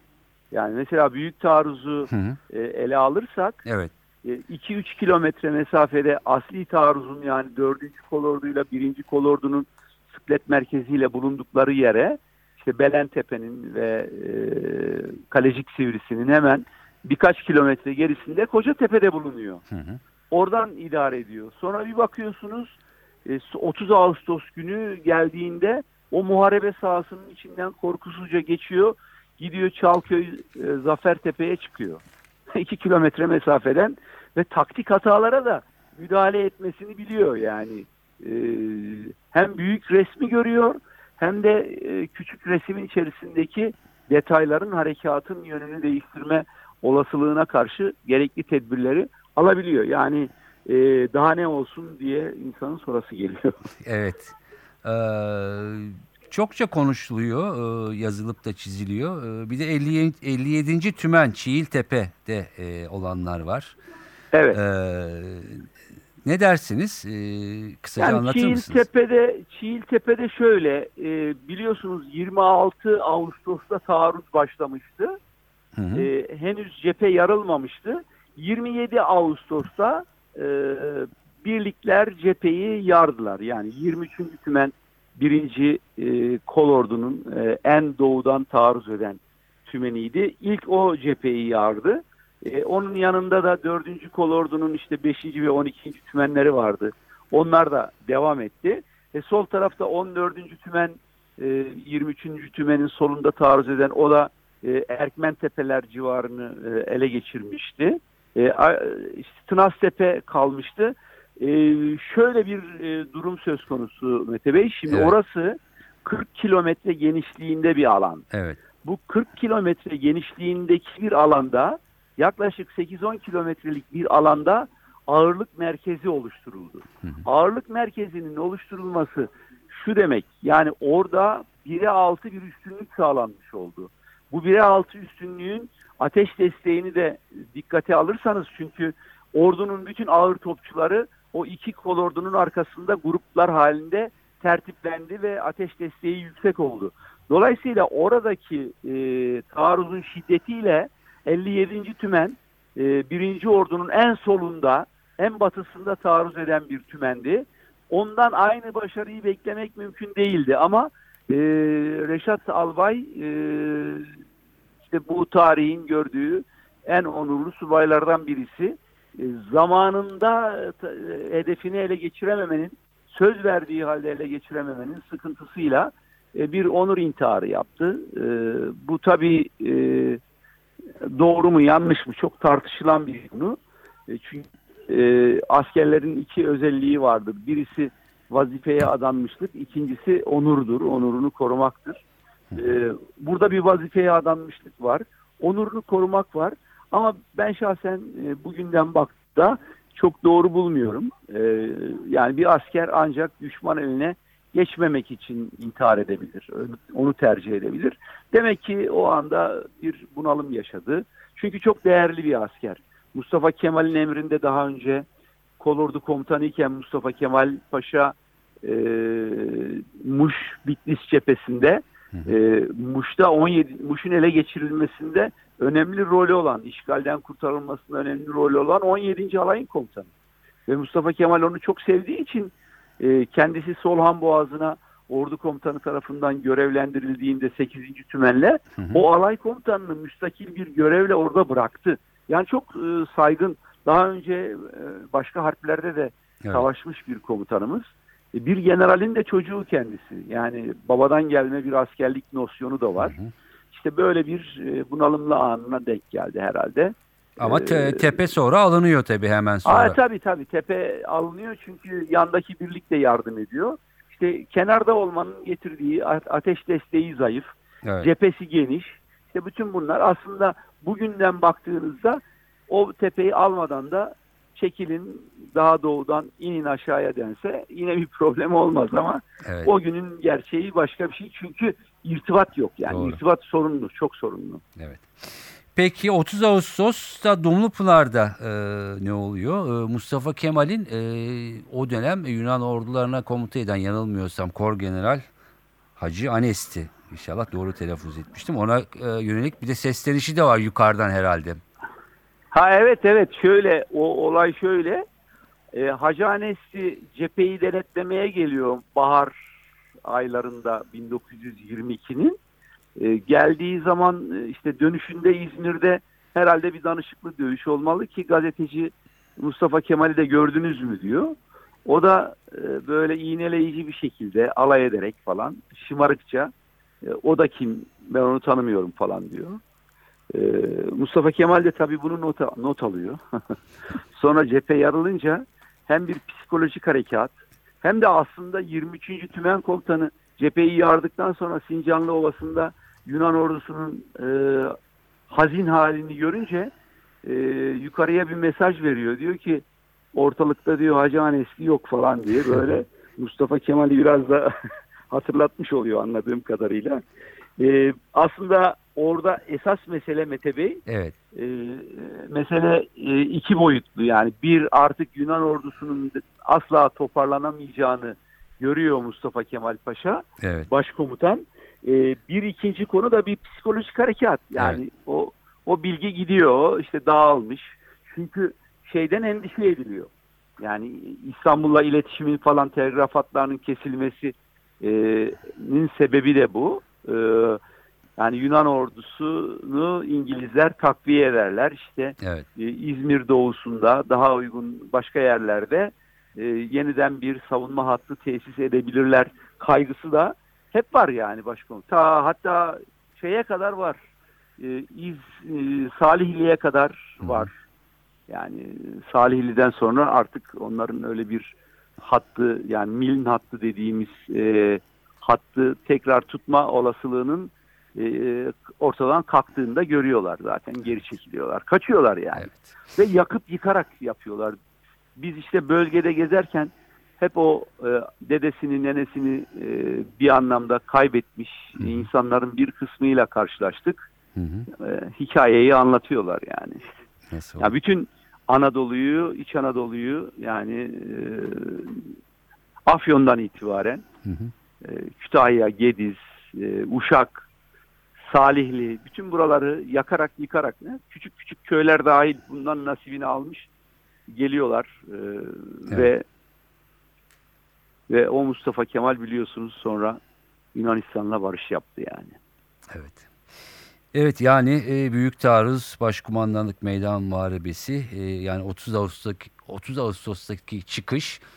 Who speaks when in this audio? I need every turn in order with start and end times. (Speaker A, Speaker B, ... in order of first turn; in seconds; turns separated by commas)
Speaker A: 0.5-3.6, Speaker B: 2.1-2.4, Speaker B: 3.7-3.9, Speaker A: 4.2-19.6, Speaker B: 19.7-20.0, Speaker A: 20.3-32.0, Speaker A: 32.5-53.5, Speaker B: 53.8-63.8, Speaker A: 64.3-64.6, Speaker B: 64.5-65.7, Speaker B: 66.2-68.8, Speaker A: 68.0-75.2, Speaker B: 75.8-76.1, Speaker A: 75.9-118.3, Speaker B: 114.9-115.1, Speaker B: 118.3-118.6, Speaker A: 118.8-164.1, Speaker A: 164.9-180.2, Speaker A: 181.0-192.0, Speaker A: 192.6-215.1, Speaker A: 215.6-230.1, Speaker A: 230.7-253.2, Speaker B: 253.0-253.3, Speaker A: 253.7-258.2, Speaker B: 257.4-260.0, Speaker A: 259.7-284.6, Speaker B: 267.8-268.1, Speaker B: 279.4-279.7, Speaker B: 282.9-283.2, Speaker B: 284.8-295.3, Speaker B: 296.0-301.6, Speaker A: 302.5-305.0, Speaker A: 305.7-309.3, Speaker A: 310.1-312.4, Speaker A: 313.0-321.4, Speaker A: 321.9-329.6, Speaker A: 330.3-333.6, Speaker A: 334.1-344.8, Speaker A: 345.3-346.7, Speaker A: 347.2-354.5, Speaker A: 355.1-357.0, Speaker A: 357.6-360.8, Speaker B: 360.9-361.2, Speaker A: 361.3-387.6, Speaker B: 370.4-370.7, Speaker B: 374.6-374.8, Speaker A: 388.2-404.0, Speaker A: 404.6-407.6, Speaker B: 407.2-407.5, Speaker A: 408.3-424.6, Speaker A: 425.2-434.1, Speaker B: 431.8-432.1, Speaker B: 434.4-434.7, Speaker A: 434.7-436.9, Speaker B: 437.3-437.7, Speaker A: 437.6-442.1, Speaker A: 442.9-444.1, Speaker B: 444.2-444.5, Speaker A: 444.8-447.5, Speaker A: 448.3-453.7, Speaker A: 454.3-456.2, Speaker A: 458.1-460.2, Speaker A: 460.7-462.4, Speaker B: 462.9-463.2, Speaker B: 464.1-471.4